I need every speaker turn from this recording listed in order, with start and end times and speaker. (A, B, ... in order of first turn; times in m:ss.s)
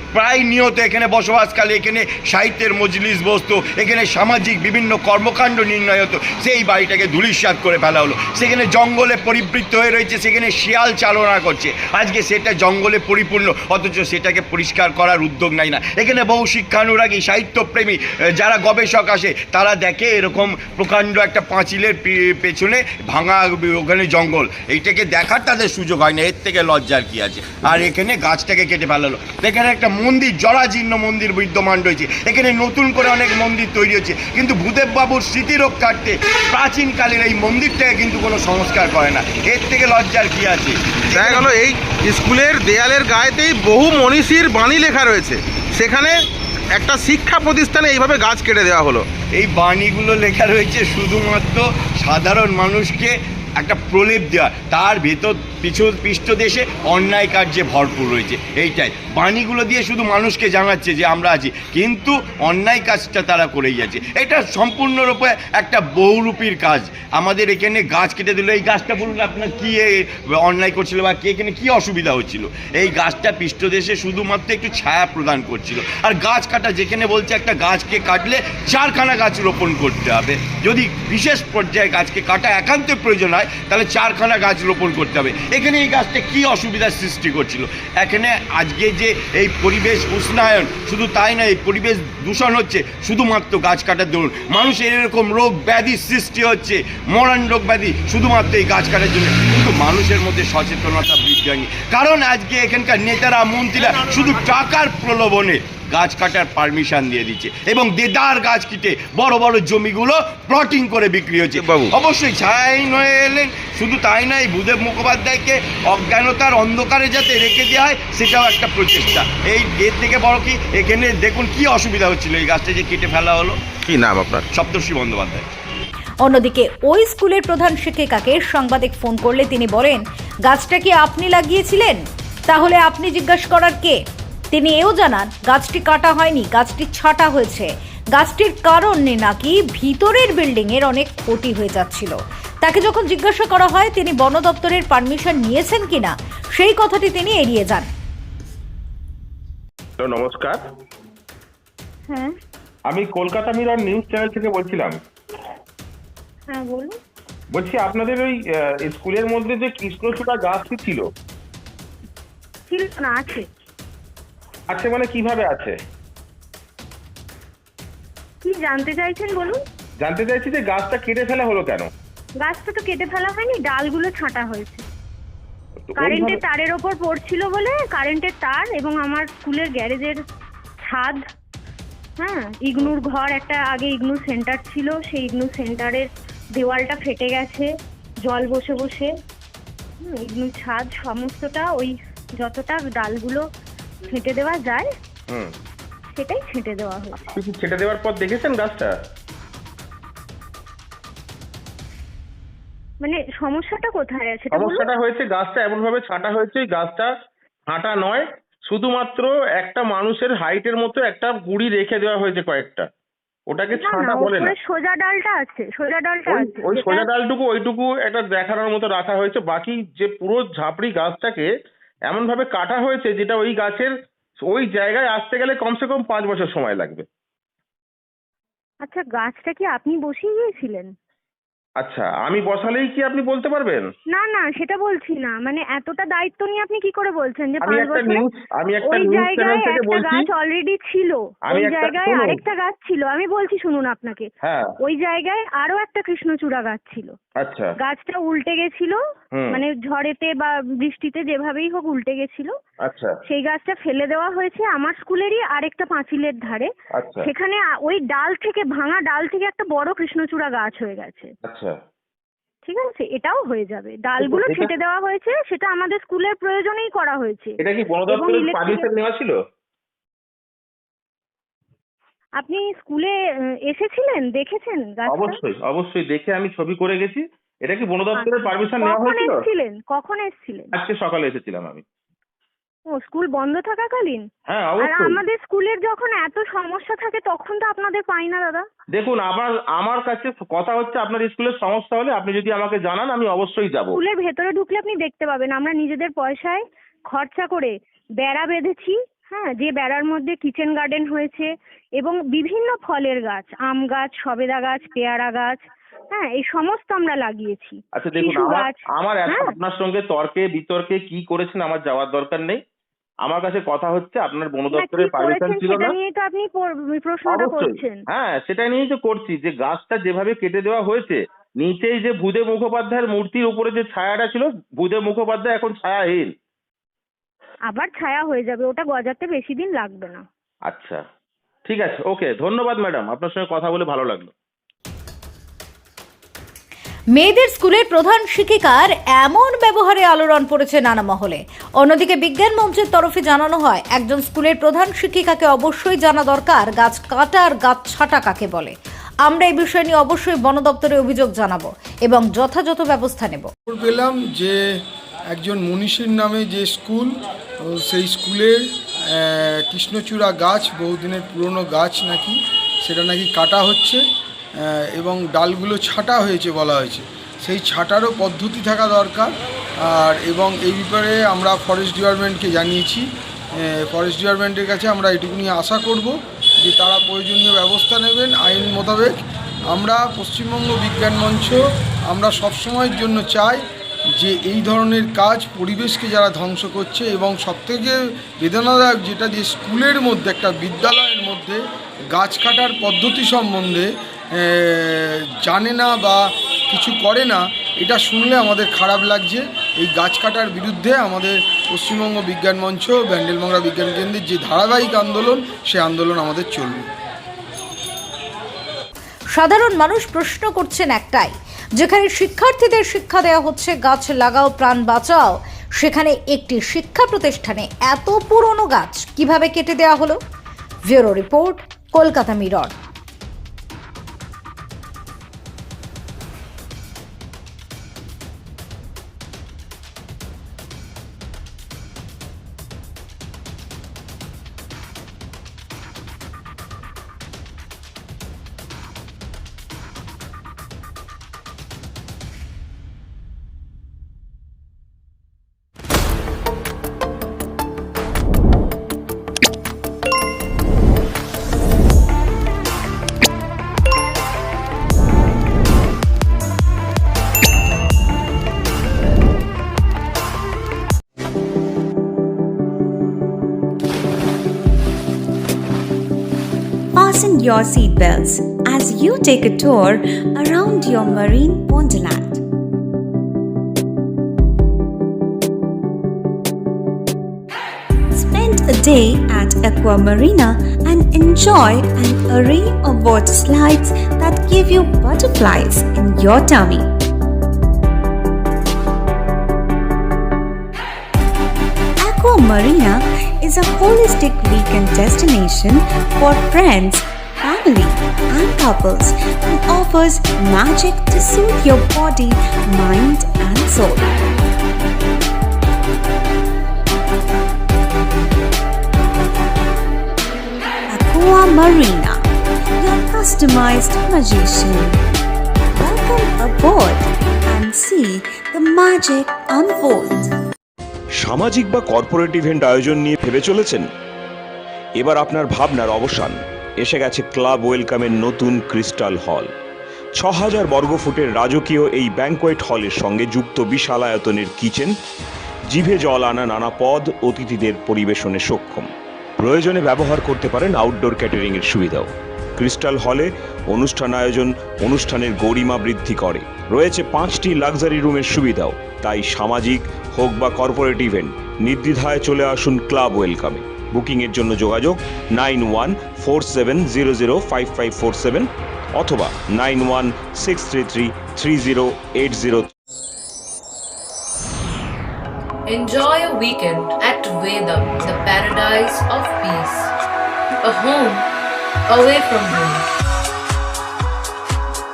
0:00.2-0:41.5 A
0:41.2-0:41.5 B
0:41.4-0:46.2 C
0:43.2-0:44.2 B
0:46.8-0:49.0 C
0:49.3-2:03.6 A
2:03.9-2:04.4 B
2:04.5-2:05.5 A
2:06.2-2:14.0 D
2:14.5-2:27.9 D
2:30.0-2:30.6 B
2:32.9-2:35.0 B
2:36.5-2:36.9 E
2:37.5-2:41.1 B
2:42.7-2:43.4 E
2:44.7-2:45.8 B
2:48.4-2:49.6 E
2:50.0-2:51.9 B
2:52.4-2:54.8 E
2:55.9-2:56.4 B
2:56.0-3:00.2 E
3:00.9-3:01.2 E
3:02.2-3:07.7 E
3:08.2-3:09.1 E
3:10.0-3:13.4 E
3:14.1-3:14.9 E
3:16.2-3:17.2 E
3:17.4-3:18.9 B
3:23.0-3:24.9 E
3:24.5-3:27.1 B
3:27.7-3:32.9 B
3:33.5-3:34.5 B
3:33.7-3:37.1 E
3:36.3-3:41.5 B
3:42.1-3:47.0 B
3:48.8-3:50.9 E
3:51.8-3:53.9 B
3:54.1-3:58.3 E
3:57.6-4:00.3 B
3:58.8-4:04.3 E
4:01.5-4:02.4 B
4:04.4-4:04.7 B
4:04.8-4:07.1 E
4:07.4-4:07.7 B
4:07.8-4:09.0 E
4:09.3-4:09.6 B
4:09.5-4:12.5 E
4:12.8-4:13.1 B
4:13.3-4:16.7 E
4:17.0-4:17.3 B
4:17.2-4:21.3 E
4:21.5-4:21.8 B
4:22.6-4:28.9 E
4:24.2-4:24.7 B
4:27.6-4:29.4 B
4:32.4-4:33.2 E
4:33.7-4:35.4 E
4:35.1-4:39.4 B
4:38.2-4:40.7 E
4:40.7-4:41.8 B
4:42.9-4:44.2 E
4:44.5-4:45.2 B
4:44.8-4:48.6 E
4:48.9-4:54.0 B
4:53.9-5:09.5 E
5:08.0-5:12.6 B
5:13.2-5:16.0 B
5:14.7-5:18.0 E
5:17.3-5:26.3 B
5:27.7-5:30.2 E
5:30.7-5:31.0 B
5:31.7-5:34.3 B
5:37.2-5:48.7 D
5:49.2-5:53.5 D
5:53.7-5:54.6 F
5:55.3-5:57.1 F
5:57.7-6:04.0 F
6:04.6-6:19.2 F
6:19.7-6:23.6 F
6:24.2-6:46.9 F
6:49.3-7:00.2 D
7:00.9-7:02.7 D
7:46.9-7:52.4 G
7:58.1-8:06.9 G
8:12.0-8:24.3 G
8:30.9-8:32.2 G
8:32.8-8:35.0 G
8:35.8-8:40.3 G
8:41.2-8:43.9 H
8:45.0-8:49.5 H
8:50.2-8:55.0 H
8:55.7-9:22.7 H
9:25.7-9:29.9 I
9:30.6-9:31.3 I
9:31.9-9:32.9 I